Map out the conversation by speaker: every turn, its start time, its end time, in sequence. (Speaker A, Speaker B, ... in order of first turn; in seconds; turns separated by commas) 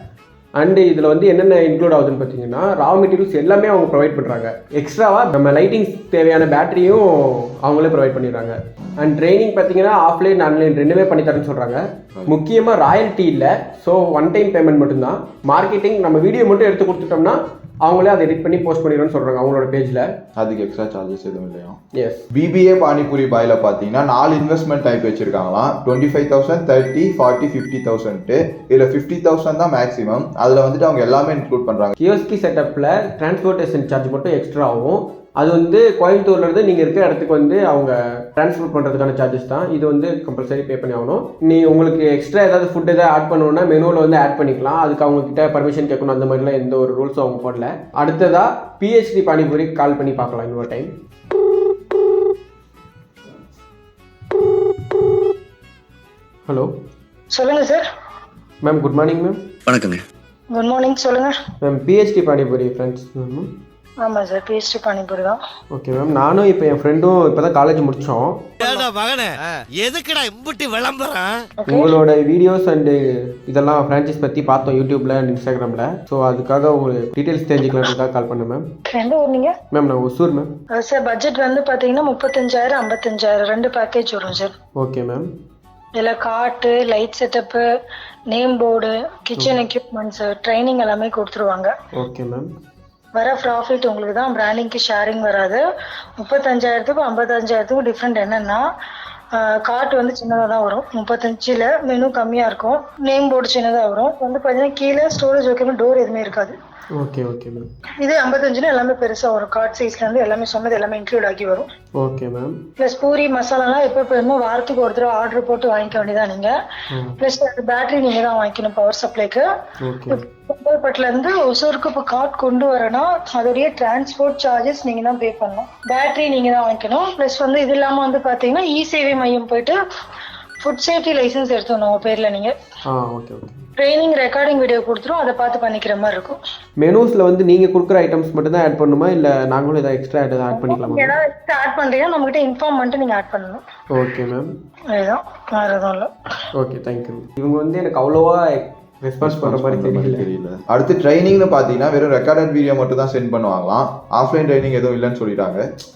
Speaker A: 0.6-20.1, Speaker B: 20.4-21.8, Speaker A: 22.0-22.2, Speaker B: 22.3-31.9, Speaker A: 32.0-50.9, Speaker A: 56.5-56.7, Speaker C: 57.3-57.9, Speaker A: 58.6-59.4, Speaker C: 60.5-61.3, Speaker A: 61.6-63.5, Speaker C: 64.0-65.4, Speaker A: 65.7-68.6, Speaker D: 68.6-71.5, Speaker C: 71.6-72.0, Speaker A: 71.7-78.6, Speaker C: 78.9-79.5, Speaker A: 79.7-80.5, Speaker C: 80.7-84.5, Speaker A: 84.8-85.3, Speaker C: 86.0-87.6, Speaker C: 88.3-91.7, Speaker A: 91.9-92.5, Speaker C: 93.2-95.6, Speaker C: 96.2-98.6, Speaker C: 99.3-106.5, Speaker A: 107.0-107.7, Speaker C: 108.0-111.7, Speaker A: 112.0-112.6, Speaker C: 112.8-116.5, Speaker C: 117.2-119.5, Speaker A: 119.8-120.2, Speaker C: 120.1-129.8, Speaker C: 130.6-132.5, Speaker A: 132.9-133.6, Speaker C: 133.8-136.4, Speaker A: 136.8-141.1, Speaker C: 140.5-143.6, Speaker A: 143.9-144.5, Speaker C: 144.9-146.1, Speaker A: 146.6-150.2, Speaker B: 149.2-155.6